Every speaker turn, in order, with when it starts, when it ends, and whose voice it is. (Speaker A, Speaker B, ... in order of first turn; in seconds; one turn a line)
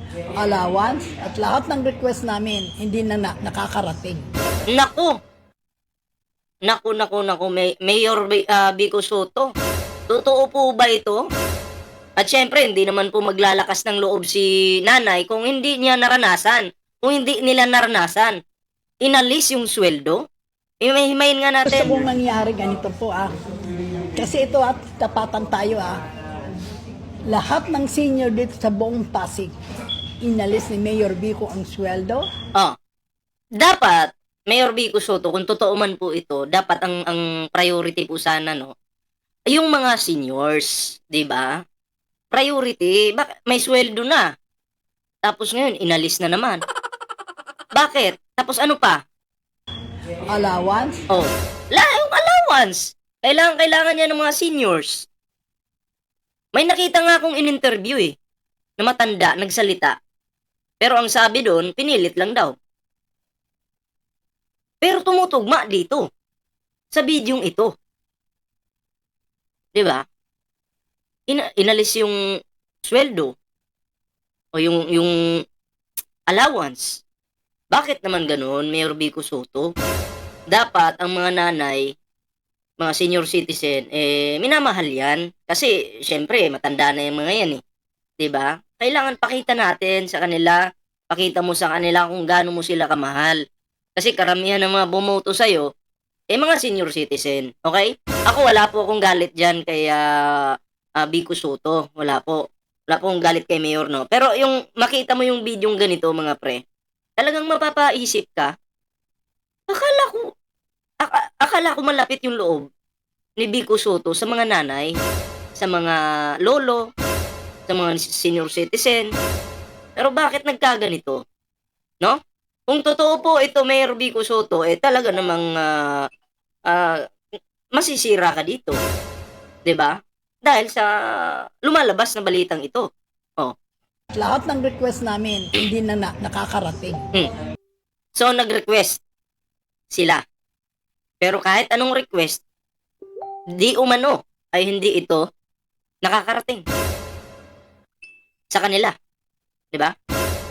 Speaker A: 0.4-4.2
Speaker B: 4.7-5.2
Speaker B: 6.7-9.5
Speaker B: 10.1-11.2
Speaker B: 12.2-18.4
Speaker B: 19.0-20.2
Speaker B: 20.8-22.0
Speaker A: 21.7-23.3
Speaker A: 24.2-26.0
Speaker A: 27.3-29.5
Speaker A: 30.2-32.3
Speaker B: 33.6-38.7
Speaker B: 39.5-41.6
Speaker B: 42.3-44.3
Speaker B: 45.2-46.6
Speaker B: 47.8-49.0
Speaker A: 50.3-51.0
Speaker B: 51.1-55.1
Speaker B: 56.5-58.1
Speaker B: 58.8-60.0
Speaker B: 60.8-62.5
Speaker B: 64.8-66.1
Speaker B: 66.9-67.7
Speaker B: 69.8-70.0
Speaker B: 71.3-72.2
Speaker B: 72.8-73.3
Speaker B: 74.5-75.4
Speaker B: 76.3-77.0
Speaker B: 77.7-79.7
Speaker B: 80.5-81.9
Speaker B: 82.8-87.6
Speaker B: 88.2-93.4
Speaker B: 94.0-95.7
Speaker B: 96.3-106.6
Speaker B: 107.2-108.5
Speaker B: 109.7-110.3
Speaker B: 111.0-112.7
Speaker B: 113.4-115.0
Speaker B: 115.6-116.9
Speaker B: 117.7-119.1
Speaker B: 120.0-121.2
Speaker B: 122.0-126.1
Speaker B: 126.7-127.0
Speaker B: 127.8-128.8
Speaker B: 129.7-132.9
Speaker A: 134.2-137.0
Speaker B: 138.2-139.0
Speaker B: 139.9-140.2
Speaker B: 141.2-142.4
Speaker B: 143.6-145.2
Speaker B: 146.0-146.6
Speaker B: 148.5-148.9